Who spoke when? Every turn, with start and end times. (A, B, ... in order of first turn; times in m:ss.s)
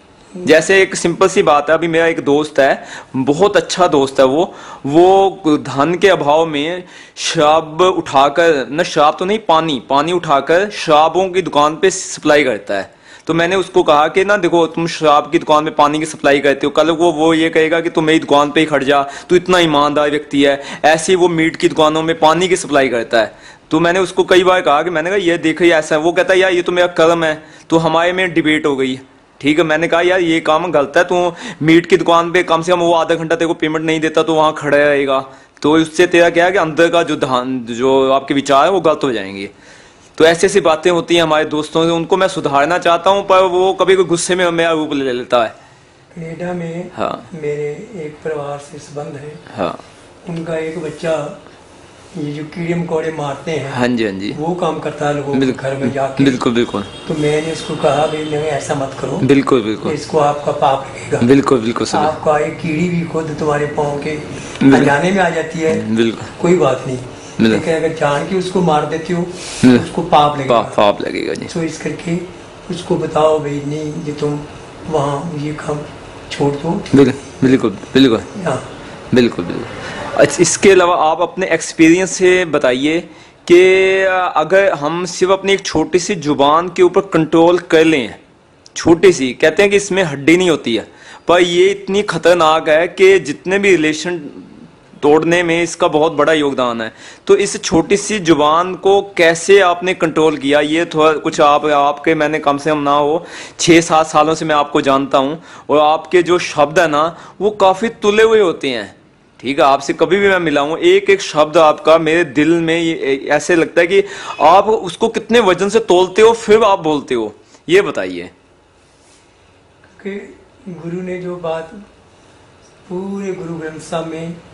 0:00.4-0:39.5 A
0:40.2-0:45.5 A
0:46.1-0:49.4 B
0:46.9-0:47.3 A
0:49.5-0:49.8 A
0:50.2-0:51.4 B
0:52.1-0:53.8 B
0:53.7-0:54.4 A
0:54.3-0:56.4 B
0:55.3-0:56.9 A
0:57.0-0:59.3 B
0:59.2-1:00.0 A
0:59.8-1:01.3 B
1:01.2-1:02.1 A
1:01.9-1:05.8 B
1:04.6-1:05.0 A
1:05.7-1:06.3 A
1:06.4-1:10.8 B
1:07.4-1:07.6 A
1:09.6-1:09.9 A
1:10.5-1:11.5 A
1:11.5-1:17.6 B
1:16.9-1:18.3 A
1:18.3-1:18.6 B
1:19.1-1:28.2 A
1:28.8-1:58.3 A
1:59.9-2:01.8 B
2:02.9-2:04.4 B